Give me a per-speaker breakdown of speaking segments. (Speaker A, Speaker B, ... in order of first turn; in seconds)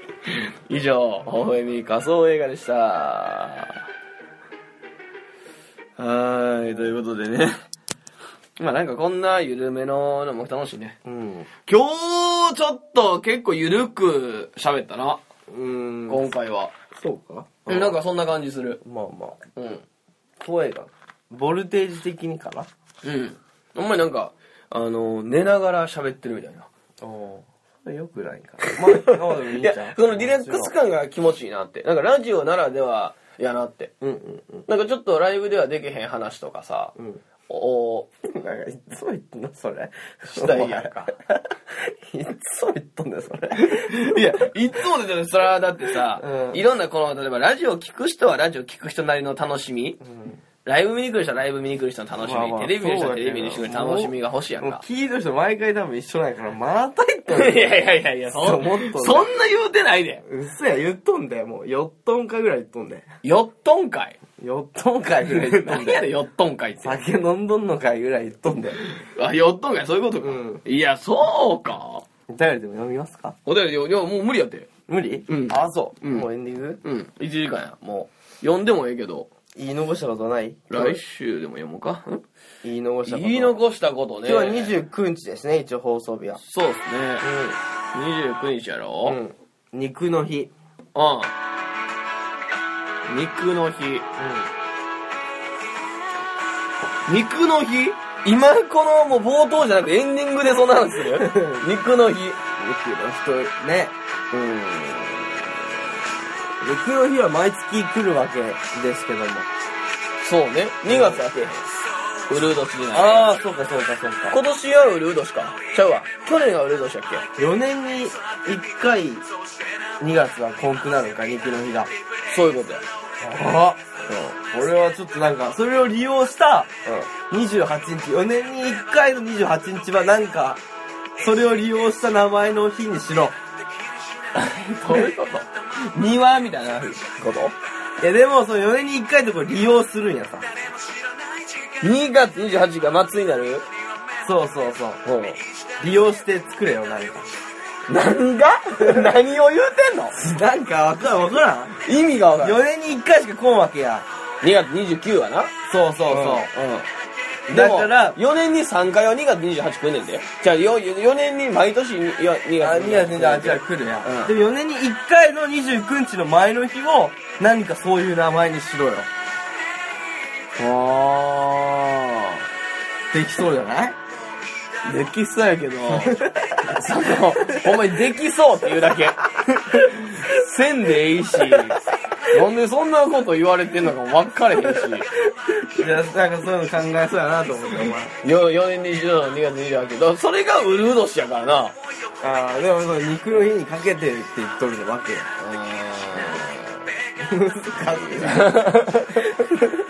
Speaker A: 0.2-3.8, 6.0-7.6, 8.6-11.0, 11.7-15.2, 16.1-16.7, 17.7-18.8, 19.6-19.9, 23.0-26.7, 28.6-33.9, 34.7-37.0, 37.5-38.1, 40.3-41.1, 43.6-50.0, 50.6-54.8, 57.3-60.2, 63.2-64.2, 65.3-67.0, 69.0-72.0, 73.5-74.7, 75.3-76.3, 76.8-79.3, 80.7-82.2, 83.1-84.7, 86.4-87.3, 87.9-89.2, 91.0-91.3, 93.0-94.1, 97.1-102.4, 104.3-105.5, 110.2-111.6, 112.3-113.4, 114.3-117.2, 122.3-122.8, 124.1-124.4, 134.3-137.6, 141.8-143.7, 145.0-145.4, 147.9-150.2, 151.8-152.6, 154.4-155.5, 156.1-156.9, 157.5-164.3, 170.6-172.4, 174.8-185.1, 188.2-191.8, 195.4-196.8, 198.2-199.6
Speaker B: 11.1-11.5, 15.5-16.3, 16.9-18.0, 18.8-19.5, 20.4-22.7, 27.0-30.7, 34.0-34.7, 37.0-37.2, 38.2-44.5, 45.9-46.6, 50.0-50.4, 52.2-59.3, 60.2-63.1, 64.4-66.1, 66.8-68.8, 70.2-70.6, 72.3-73.4, 74.9-76.8, 79.6-81.0, 82.6-83.6, 84.2-86.4, 87.2-87.6, 89.0-90.5, 94.2-94.5, 101.1-101.6, 102.5-103.9, 106.6-109.5, 110.9-111.2, 112.9-114.4, 117.4-119.3, 120.0-121.9, 123.2-123.8, 124.4-130.6, 131.2-133.4, 138.0-140.5, 144.2-145.0, 145.8-147.3, 148.8-149.1, 150.1-151.8, 152.4-154.1, 155.7-156.5, 157.5-158.2, 162.6-169.1, 173.1-174.0, 175.9-176.8, 177.4-177.7, 181.4-181.7, 184.8-188.2, 192.2-195.3, 196.2-196.4, 197.2-198.6